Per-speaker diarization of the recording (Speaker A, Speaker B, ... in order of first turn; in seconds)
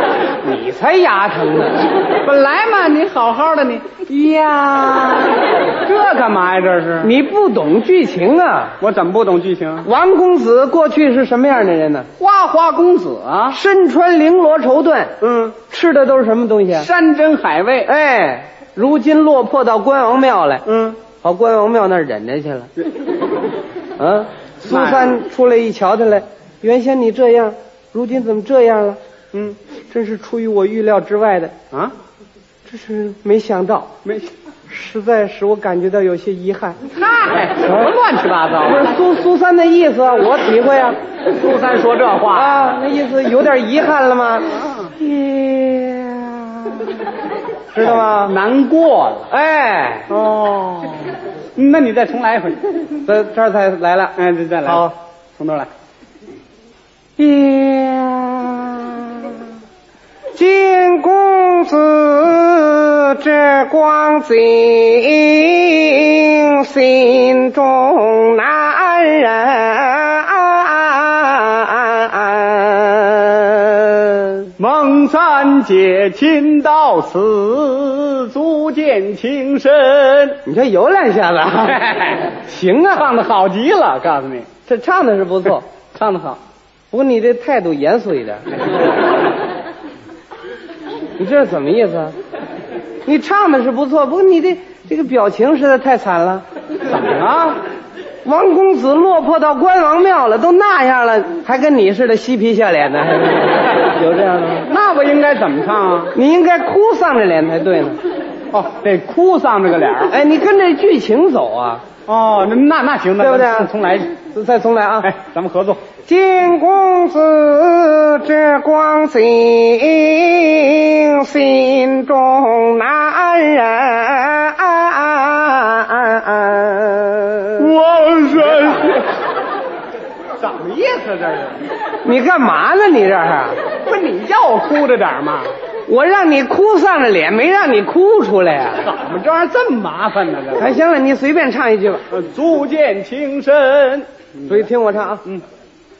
Speaker A: 0.4-1.8, 4.1-5.4, 7.0-8.8, 9.8-12.1, 13.5-15.1, 15.7-16.9, 17.9-22.7, 24.0-29.0, 29.9-31.5, 32.7-33.9, 34.7-36.9, 38.6-41.0, 42.3-47.2, 47.7-48.3, 49.3-50.1, 53.0-54.2, 57.2-59.5, 60.3-74.5, 80.5-83.1, 84.7-85.7, 86.9-88.6, 91.2-92.1, 93.0-96.4, 98.2-104.7, 106.1-108.0, 110.1-111.8, 113.2-115.1, 116.1-127.7, 132.0-133.6, 135.9-138.9, 140.6-142.1, 144.5-145.2
Speaker B: 2.2-4.0, 5.8-7.1, 8.8-9.9, 12.2-13.6, 15.2-15.6, 16.7-17.9, 20.7-21.0, 24.7-25.2, 34.0-34.3, 36.9-38.9, 41.3-42.8, 47.8-49.3, 50.1-52.6, 54.2-55.7, 74.6-80.4, 81.6-82.3, 83.0-84.5, 85.9-86.4, 96.8-97.6, 104.7-106.2, 108.5-110.1, 112.1-114.1, 115.0-115.8, 127.6-129.1, 130.4-131.7, 133.8-135.5, 138.8-140.8, 142.1-144.7